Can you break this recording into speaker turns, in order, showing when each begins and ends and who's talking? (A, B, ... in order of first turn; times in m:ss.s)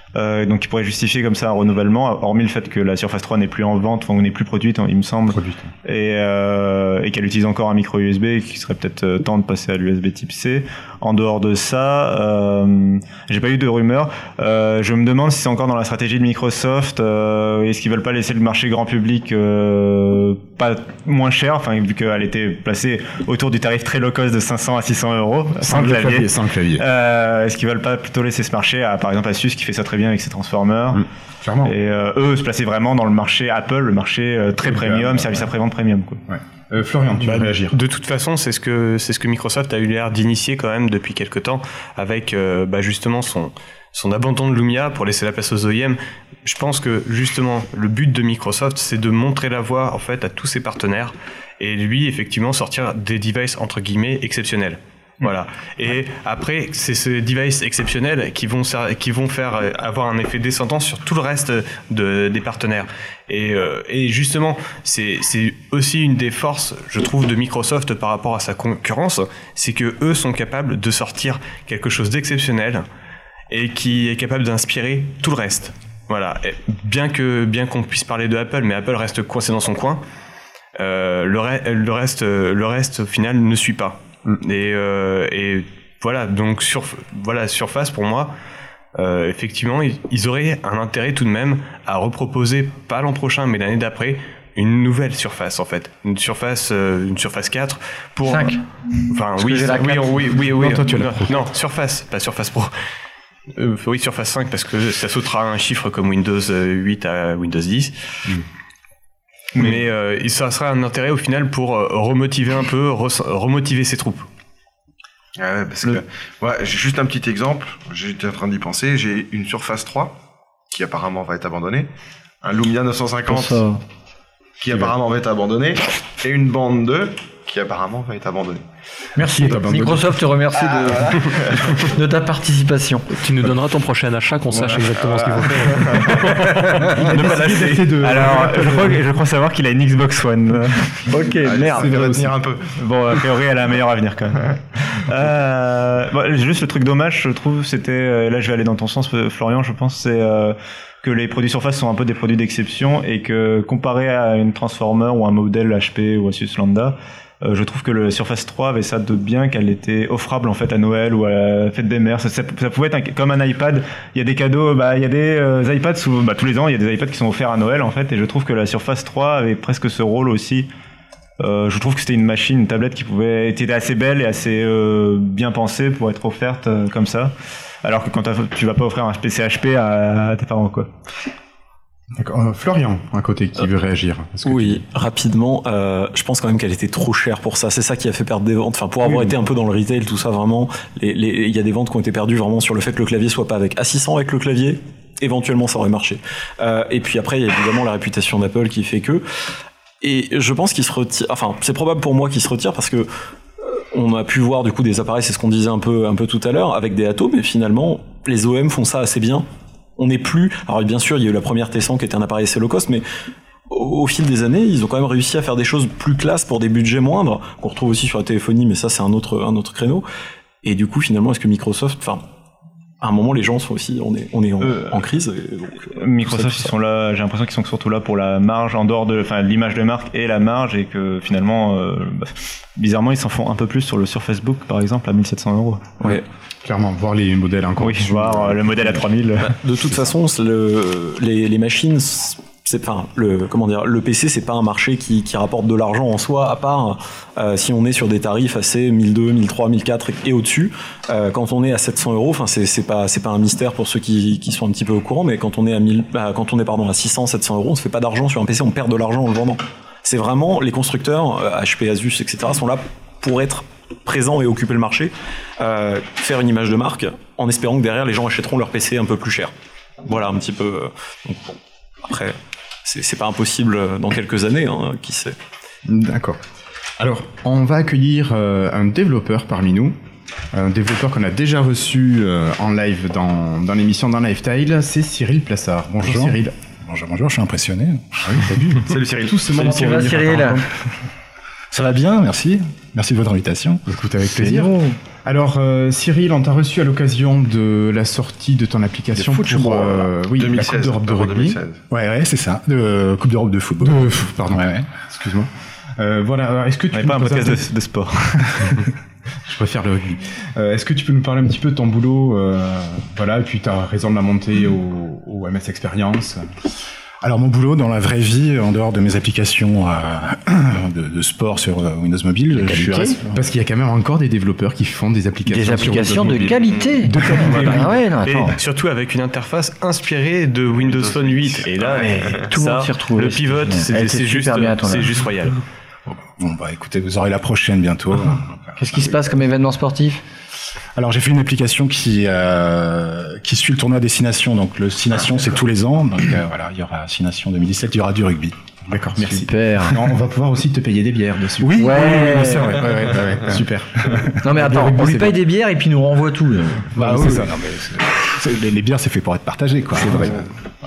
0:00.1-0:31.0 A
0:05.3-0:05.7 B
0:25.6-0:26.8 B
0:30.9-0:31.7 B
0:31.6-0:36.2 A
0:34.6-0:35.5 B
0:36.3-0:37.8 B
0:37.2-1:12.8 C
1:13.5-1:20.0 C
1:20.8-1:28.3 C
1:28.9-1:42.7 C
1:38.2-1:38.6 D
1:39.4-1:40.3 D
1:40.4-1:41.4 B
1:43.5-1:47.9 C
1:49.6-1:54.3 C
1:55.4-2:00.2 E
2:00.7-2:01.9 E
2:02.4-2:03.6 E
2:03.3-2:03.8 D
2:04.6-2:08.6 E
2:09.2-2:13.1 D
2:09.2-2:10.2 B
2:10.6-2:11.7 E
2:13.1-2:16.4 F
2:14.6-2:16.5 E
2:16.9-2:19.0 B
2:17.2-2:21.0 A
2:21.1-2:21.9 D
2:21.4-2:22.7 E
2:21.7-2:22.4 B
2:22.7-2:50.7 A
2:51.4-3:00.9 A
3:02.2-3:04.8 B
3:04.4-3:19.2 G
3:20.0-3:23.1 G
3:23.7-3:29.4 G
3:30.0-3:33.0 G
3:33.7-3:40.0 G
3:40.6-3:42.2 G
3:43.0-3:46.7 G
3:45.9-3:56.1 A
3:56.0-3:59.0 B
3:57.8-3:59.5 A
3:59.5-4:29.5 G
4:30.0-4:35.4 G
4:35.8-4:36.4 B
4:37.0-4:39.9 B
4:40.5-4:46.6 B
4:46.0-4:48.4 H
4:48.2-4:50.6 B
4:49.5-4:50.6 D
4:51.7-4:53.8 H
4:53.9-5:01.6 B
4:54.4-4:54.9 D
4:59.3-5:01.8 E
5:01.9-5:04.9 H
5:03.8-5:07.7 B
5:06.9-5:08.8 A
5:09.4-5:16.5 B
5:17.2-5:23.4 H
5:22.6-5:28.0 B
5:25.5-5:28.5 D
5:27.4-5:35.6 C
5:32.5-5:35.1 D
5:36.4-5:39.0 H
5:38.8-5:40.2 D
5:40.9-5:48.6 H
5:48.9-5:55.3 B
5:49.2-5:50.0 D
5:51.6-5:53.6 H
5:51.8-5:52.8 D
5:54.4-5:56.9 D
5:56.9-5:57.6 B
5:56.9-6:00.4 H
6:00.0-6:00.5 B